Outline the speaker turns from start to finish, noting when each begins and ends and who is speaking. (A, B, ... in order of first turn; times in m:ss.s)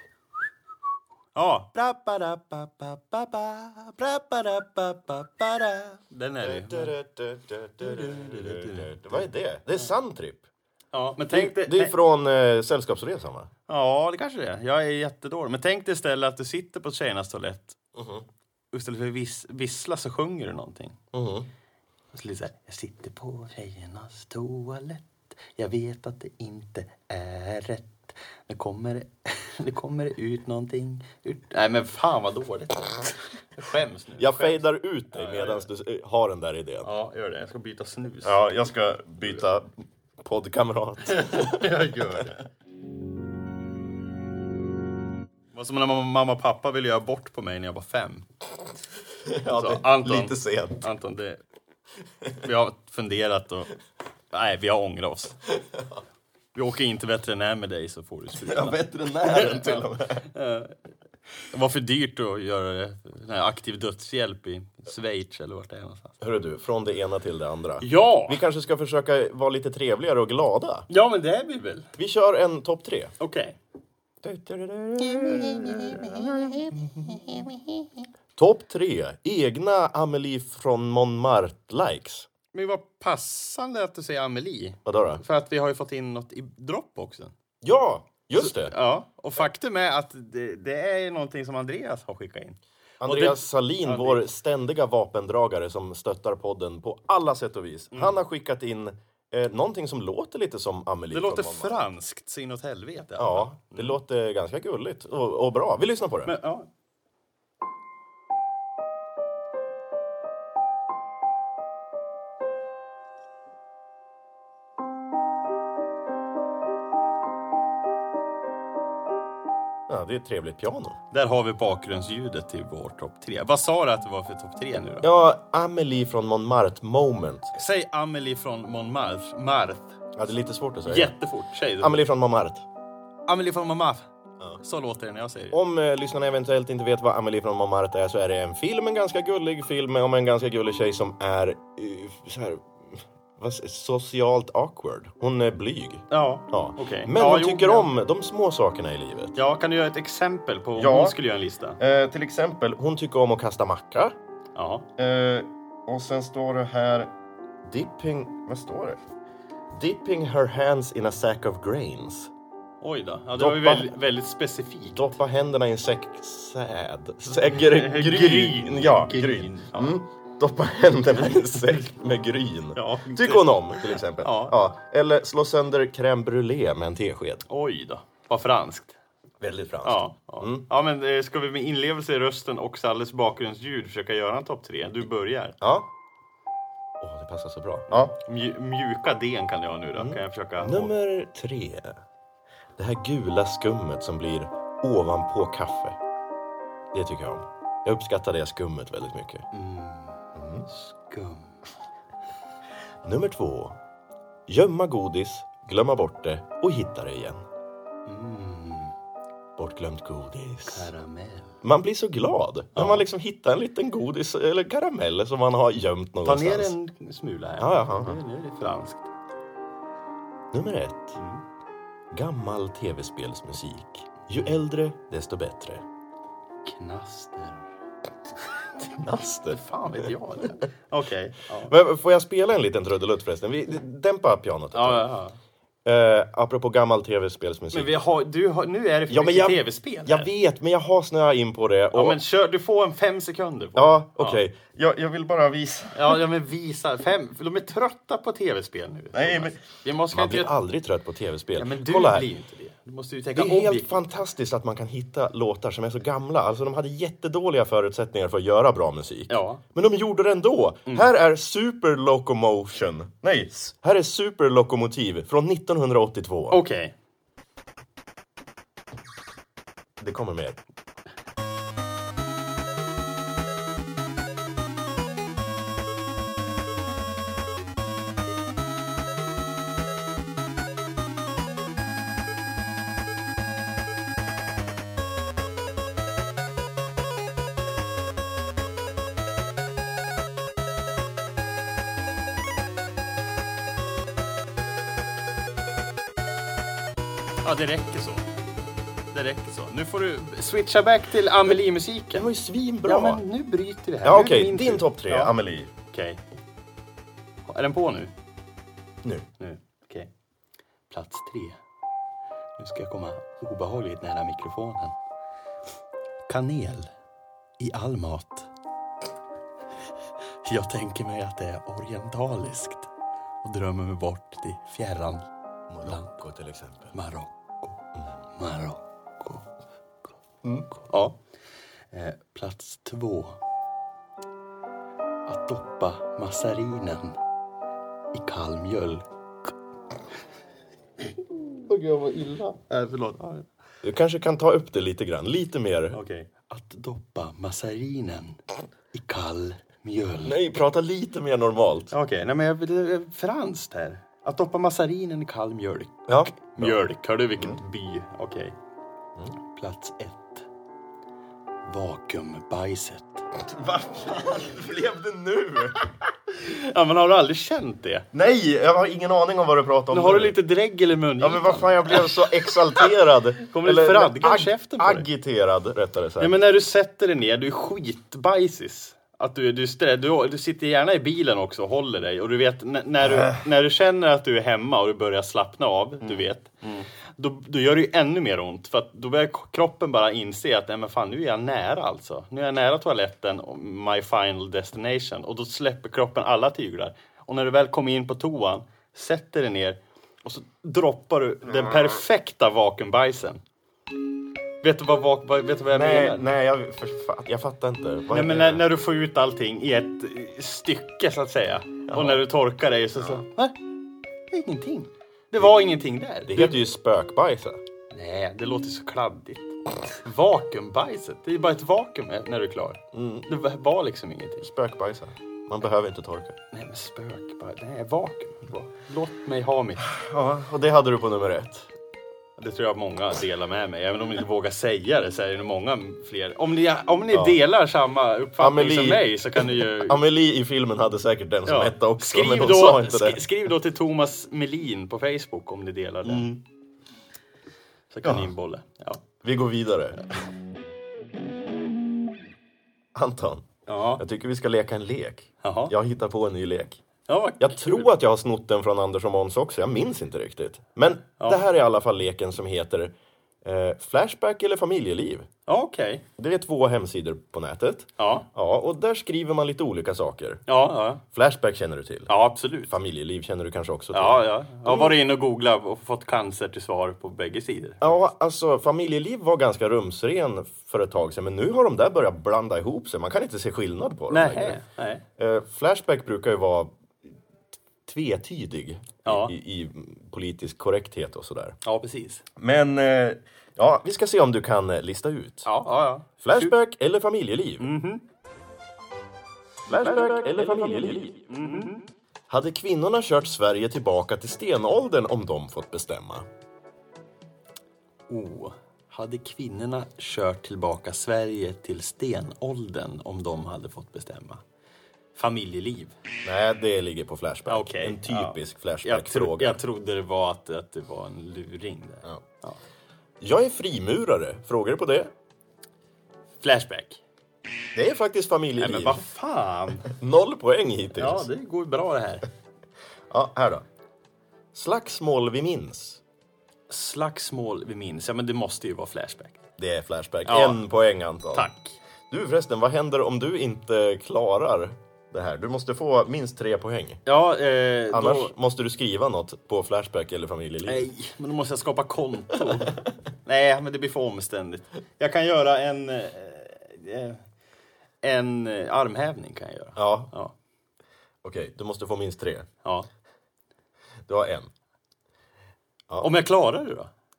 0:01.3-0:06.9 A
0:06.4-0:10.4 B
0:07.8-0:09.2 A
0:10.9-0:11.9 A
0:11.3-0:13.5 B
0:13.7-0:17.8 A
0:17.9-0:18.3 B
0:18.7-0:21.0 A
0:21.1-0:21.5 B
0:22.1-0:34.6 A
0:34.2-0:36.9 B
0:35.1-0:35.6 A
0:36.8-0:38.4 A
0:38.2-0:42.2 B
0:41.0-0:42.4 A
0:45.5-0:48.2 A
0:49.2-0:50.8 B
0:49.4-0:51.4 A
0:52.4-0:53.7 A
0:54.3-0:55.4 A
0:55.7-0:56.0 B
0:56.5-1:00.8 A
0:58.4-1:00.3 B
1:01.5-1:06.2 A
1:06.2-1:10.9 B
1:07.8-1:08.4 A
1:10.9-1:11.9 A
1:12.0-1:13.1 B
1:13.2-1:13.6 A
1:14.2-1:17.2 B
1:15.0-1:17.8 A
1:18.4-1:22.3 B
1:22.5-1:27.3 A
1:24.8-1:25.2 B
1:27.6-1:28.7 B
1:28.3-1:34.2 A
1:33.0-1:41.9 B
1:37.9-1:38.2 A
1:41.1-1:44.0 A
1:43.2-1:46.3 B
1:46.2-1:46.7 A
1:59.9-2:01.0 B
2:01.1-2:05.1 A
2:05.0-2:07.5 B
2:07.5-2:10.0 A
2:10.1-2:11.1 B
2:10.9-2:12.0 A
2:11.8-2:12.6 B
2:13.3-2:14.1 A
2:14.6-2:15.6 A
2:15.5-2:29.4 B
2:26.1-2:27.9 A
2:29.4-2:31.8 A
2:30.8-2:31.2 B
2:31.8-2:34.2 B
2:34.5-2:34.8 A
2:35.0-2:37.1 B
2:37.6-2:39.0 B
2:39.7-2:42.3 B
2:42.8-2:45.1 A
2:43.3-2:43.9 B
2:44.9-2:57.4 B
2:47.5-2:50.0 A
2:51.2-2:51.8 A
2:52.7-2:54.6 A
2:57.5-2:59.0 A
2:59.4-3:00.6 B
2:59.8-3:05.6 A
3:05.6-3:05.9 B
3:07.0-3:08.2 B
3:08.0-3:10.9 A
3:10.0-3:12.0 B
3:12.8-3:16.0 B
3:16.9-3:19.4 B
3:19.5-3:21.6 A
3:20.4-3:20.7 B
3:23.0-3:23.8 B
3:24.5-3:27.4 B
3:28.0-3:28.9 A
3:29.6-3:30.9 B
3:30.7-3:31.6 A
3:31.6-3:36.7 B
3:32.7-3:33.0 A
3:36.2-3:39.1 A
3:37.6-3:38.2 B
3:40.5-3:41.2 B
3:41.2-3:41.4 A
3:42.1-3:45.8 B
3:46.6-3:47.7 A
3:48.9-3:50.1 B
3:49.5-3:51.7 A
3:51.6-3:55.0 B
3:54.7-3:55.4 A
3:55.8-3:58.0 B
3:57.7-4:00.3 A
3:59.1-4:02.2 B
4:01.9-4:04.4 A
4:03.8-4:06.2 B
4:05.9-4:10.5 A
4:09.1-4:09.6 B
4:10.1-4:12.3 B
4:11.6-4:14.0 A
4:13.3-4:26.6 B
4:19.3-4:19.6 A
4:26.5-4:26.9 A
4:30.0-4:30.6 B
4:57.4-4:58.3 A
4:59.1-5:02.3 A
5:02.1-5:03.2 B
5:02.8-5:05.3 A
5:04.0-5:05.7 B
5:05.9-5:06.2 A
5:07.5-5:08.1 A
5:09.4-5:10.1 A
5:10.9-5:11.6 A
5:12.6-5:14.9 A
5:16.3-5:16.9 A
5:17.6-5:18.5 A
5:20.4-5:22.9 A
5:23.4-5:25.3 A
5:25.7-5:26.9 B
5:25.8-5:26.1 A
5:26.9-5:29.4 A
5:30.4-5:30.7 B
5:30.8-5:31.2 A
5:31.9-5:33.4 A
5:35.3-5:37.2 A
5:38.1-5:39.0 A
5:41.7-5:43.4 A
5:43.8-5:46.0 B
5:45.9-5:48.4 A
5:48.9-5:50.4 A
5:50.2-5:51.9 B
5:51.9-5:58.5 A
5:56.1-5:56.8 B
5:59.5-6:00.4 A
6:01.6-6:03.2 A
6:03.4-6:05.8 B
6:06.3-6:08.0 A
6:08.1-6:10.4 B
6:09.9-6:12.9 A
6:11.2-6:16.4 B
6:13.4-6:15.1 A
6:16.2-6:43.4 A
6:41.6-6:41.9 B
6:44.6-6:46.2 A
6:45.7-6:48.6 B
6:48.1-6:53.6 A
6:51.9-6:52.2 B
6:54.3-6:56.6 A
6:56.2-6:57.6 B
6:57.9-7:04.4 A
7:02.9-7:03.3 B
7:04.4-7:06.4 B
7:06.5-7:09.9 A
7:09.8-7:11.7 B
7:12.4-7:20.0 A
7:17.1-7:17.4 B
7:18.4-7:23.2 B
7:21.4-7:26.4 A
7:26.0-7:26.3 B
7:27.9-7:29.0 A
7:28.0-7:28.3 B
7:29.2-7:30.0 B
7:32.9-7:36.8 B
7:33.7-7:34.0 A
7:35.4-7:35.7 A
7:37.1-7:37.9 A
7:37.4-7:45.3 B
7:41.2-7:41.4 A
7:45.5-7:46.0 A
7:46.2-7:50.4 B
7:48.0-7:48.3 A
7:50.5-7:51.0 A
7:51.1-7:52.1 B
7:52.1-7:52.7 A
7:52.7-7:54.9 B
7:53.9-7:58.0 A
7:57.8-8:04.6 B
8:04.1-8:05.0 A
8:05.2-8:06.7 B
8:07.8-8:11.6 B
8:09.0-8:09.3 A
8:11.6-8:12.2 A
8:12.4-8:15.5 B
8:15.4-8:16.5 A
8:16.2-8:17.7 B
8:17.6-8:18.0 A
8:19.7-8:21.3 B
8:19.8-8:20.3 A
8:21.3-8:21.9 A
8:22.3-8:26.3 B
8:28.1-8:34.4 A
8:35.1-8:36.0 A
8:36.2-8:39.6 B
8:37.5-8:42.6 A
8:43.2-8:45.1 B
8:46.4-8:47.0 A
8:47.7-8:49.0 B
8:48.6-8:49.9 A
8:49.8-8:51.3 B
8:51.0-8:52.2 A
8:53.1-8:53.6 B
8:54.5-8:56.0 B
8:56.7-8:59.4 A
8:59.6-9:01.5 B
9:00.2-9:00.6 A
9:01.3-9:01.8 A
9:02.1-9:07.0 B
9:07.0-9:08.3 A
9:07.9-9:10.9 B
9:10.6-9:17.2 A
9:18.0-9:20.3 A
9:19.8-9:20.1 B
9:21.2-9:22.5 B
9:24.1-9:24.5 B
9:26.0-9:26.9 A